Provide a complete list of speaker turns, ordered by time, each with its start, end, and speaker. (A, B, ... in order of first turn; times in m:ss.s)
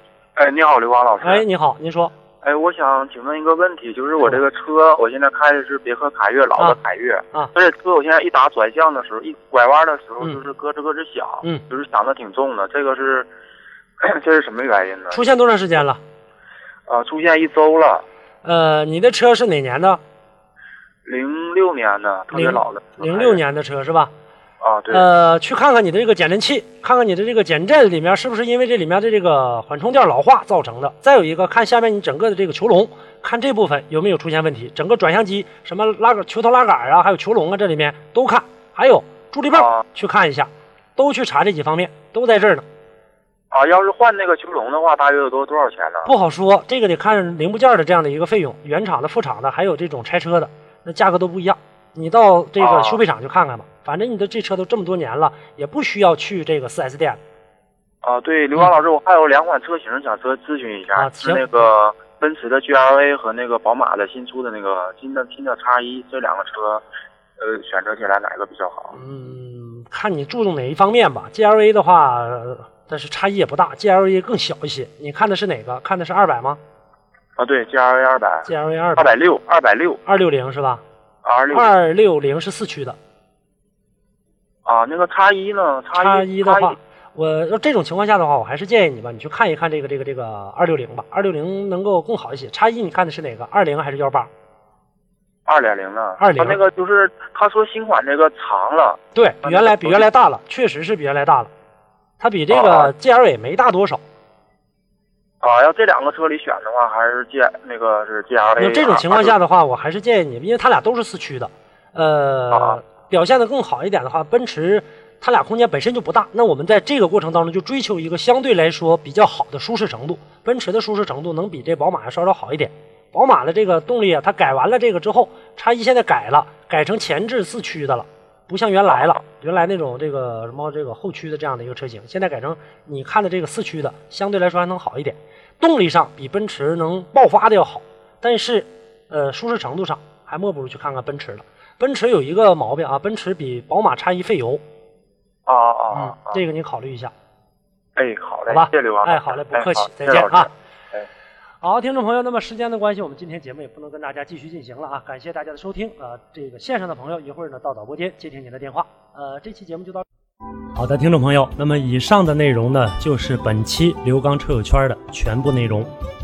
0:00.4-0:01.4 A
0:01.2-0:02.1 B
0:02.4-0:13.3 A
0:14.0-0:15.2 A
0:15.1-0:16.0 B
0:16.9-0:18.0 A
0:18.4-0:20.0 B
0:21.0-0:23.4 A
0:22.3-0:24.1 B
0:24.6-0:25.1 A
0:24.9-0:42.6 B
0:39.5-0:39.8 A
0:43.5-0:46.1 A
0:46.1-0:57.2 B
0:52.6-0:53.0 A
0:58.0-1:06.8 A
1:01.0-1:01.6 B
1:07.4-1:09.0 A
1:09.0-1:16.6 B
1:17.4-1:20.0 A
1:18.5-1:19.1 B
1:20.0-1:20.8 B
1:21.2-1:21.7 A
1:21.5-1:23.0 B
1:24.7-1:26.8 A
1:25.9-1:34.3 B
1:35.5-1:40.1 A
1:36.2-1:36.6 B
1:39.2-1:41.5 B
1:42.2-1:44.0 B
1:42.5-1:42.9 A
1:45.4-1:49.4 A
1:48.6-2:24.6 B
1:52.5-1:52.8 A
2:25.5-2:26.4 A
2:25.9-2:27.1 B
2:28.0-2:31.0 A
2:28.5-2:30.5 B
2:31.6-2:40.0 B
2:40.8-2:45.9 B